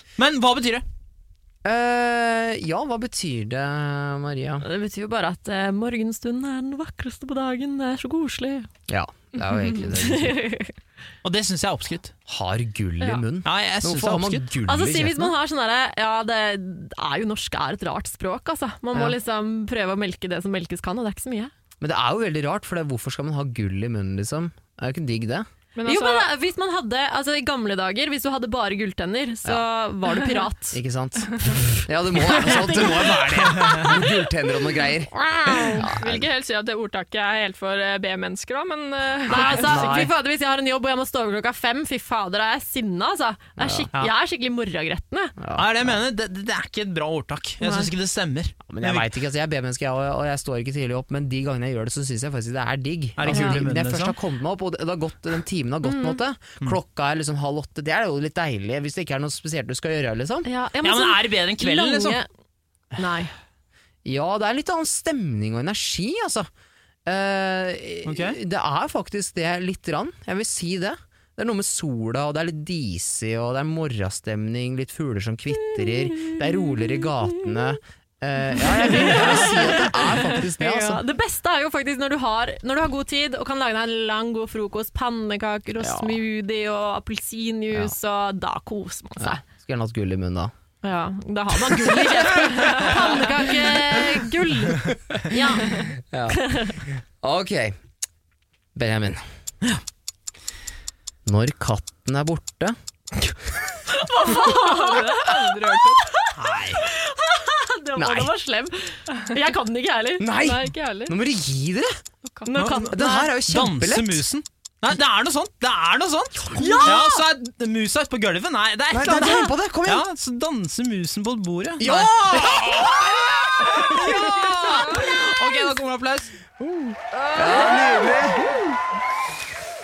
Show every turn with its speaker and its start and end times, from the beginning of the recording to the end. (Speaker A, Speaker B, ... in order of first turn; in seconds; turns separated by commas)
Speaker A: 0.2-0.8, Speaker B: 1.6-4.6, Speaker C: 4.6-8.7, Speaker B: 8.9-10.4, Speaker C: 9.8-10.7, Speaker A: 11.2-12.1, Speaker B: 12.3-15.3, Speaker A: 13.4-14.5, Speaker C: 14.6-21.5, Speaker B: 21.8-25.5, Speaker D: 25.7-26.3, Speaker C: 25.9-30.8, Speaker B: 30.7-36.2, Speaker C: 32.4-33.9, Speaker C: 35.2-35.9, Speaker D: 35.6-40.0, Speaker C: 39.3-45.3, Speaker B: 39.5-40.1, Speaker B: 43.6-43.9, Speaker B: 45.4-46.0, Speaker A: 45.5-49.1, Speaker C: 47.6-47.9, Speaker B: 48.7-60.5, Speaker A: 53.2-54.2, Speaker C: 53.3-53.6, Speaker C: 55.8-56.2, Speaker C: 60.4-62.3, Speaker A: 60.8-62.2, Speaker C: 63.0-63.3, Speaker B: 64.0-66.5, Speaker B: 67.0-81.0, Speaker A: 68.0-68.4, Speaker C: 78.8-89.4, Speaker B: 85.8-86.2, Speaker B: 89.2-90.5, Speaker C: 90.8-96.8, Speaker B: 92.3-93.0, Speaker B: 95.8-97.8, Speaker B: 98.8-99.2, Speaker B: 101.2-102.8, Speaker C: 103.9-105.4, Speaker D: 104.3-106.1, Speaker C: 106.0-110.3, Speaker A: 106.4-106.8, Speaker B: 108.0-108.3, Speaker B: 110.2-111.9, Speaker D: 110.3-111.1, Speaker D: 112.2-112.5, Speaker C: 112.4-113.4, Speaker A: 112.5-123.0, Speaker B: 112.9-114.2, Speaker C: 116.5-117.1, Speaker B: 116.8-117.1, Speaker B: 118.9-120.0, Speaker B: 121.8-124.3, Speaker A: 123.6-126.4, Speaker D: 127.2-127.9, Speaker B: 127.3-128.6